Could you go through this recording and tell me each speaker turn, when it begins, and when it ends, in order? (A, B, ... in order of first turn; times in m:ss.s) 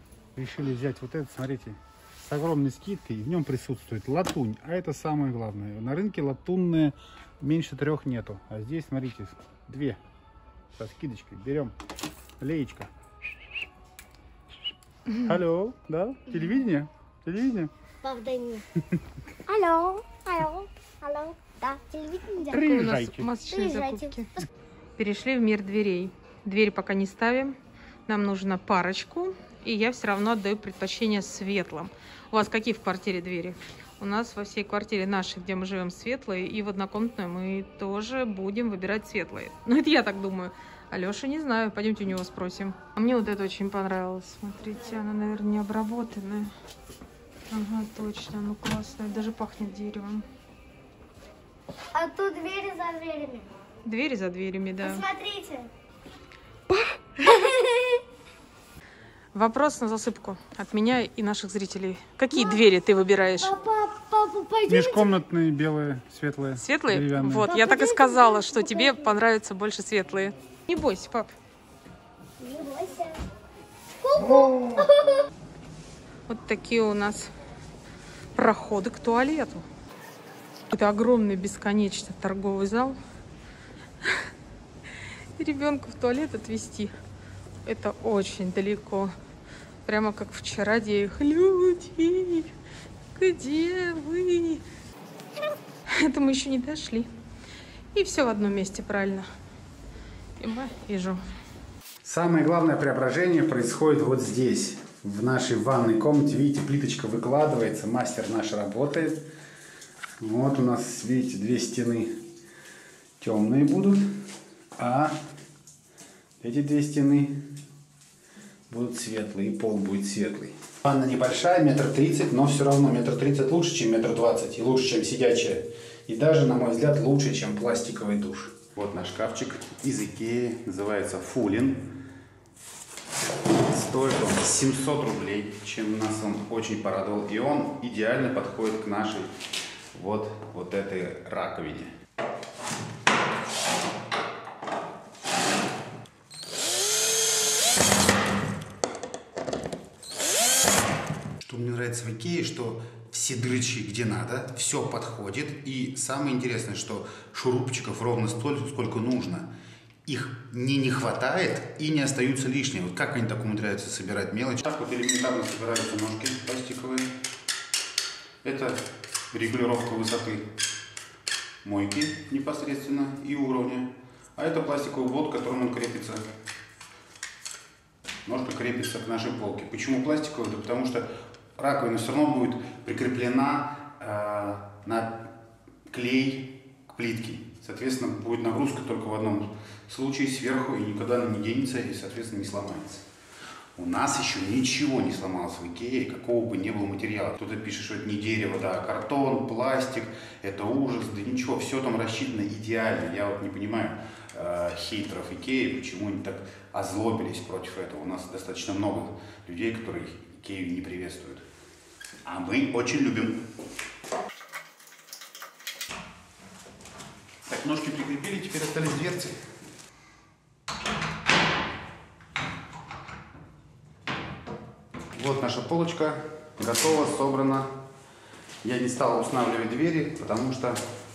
0:00.3-0:10.0 A
0:10.7-0:11.7 A
0:12.4-0:12.9 A
0:15.2-0:17.7 A
0:18.0-0:18.6 B
0:19.5-0:22.7 B
0:22.4-0:23.3 A
0:22.6-0:24.2 C
0:23.5-0:24.4 B
0:25.0-0:27.5 C
0:28.1-0:46.5 C
0:47.5-0:50.2 C
0:51.9-0:53.5 B
0:53.8-0:55.0 C
0:54.8-0:55.7 B
0:56.7-0:58.0 B
0:59.3-1:03.5 C
1:02.3-1:02.6 B
1:03.4-1:05.1 B
1:04.6-1:07.5 A
1:06.6-1:11.3 C
1:07.4-1:09.1 B
1:12.4-1:13.2 B
1:14.0-1:15.2 B
1:16.3-1:17.3 C
1:18.3-1:19.6 C
1:20.7-1:23.0 C
1:25.3-1:26.9 C
1:27.6-1:29.1 C
1:29.8-1:32.5 C
1:33.1-1:34.6 C
1:35.9-1:37.1 C
1:37.9-1:39.3 C
1:40.4-1:41.2 C
1:42.0-1:49.2 A
1:50.2-1:52.1 A
1:53.2-1:54.1 A
1:54.8-1:55.2 A
1:56.4-1:57.4 A
1:58.7-2:11.9 A
2:13.6-2:19.3 A
2:19.9-2:21.9 A
2:31.4-2:39.5 A
2:40.0-2:47.1 A
2:48.4-2:50.5 A
2:51.6-2:56.2 A
2:58.2-3:05.3 A
3:05.9-3:13.0 A
3:13.8-3:31.4 A
3:32.2-3:33.4 A
3:37.4-3:39.4 A
3:45.1-3:47.7 A
3:48.6-3:50.8 A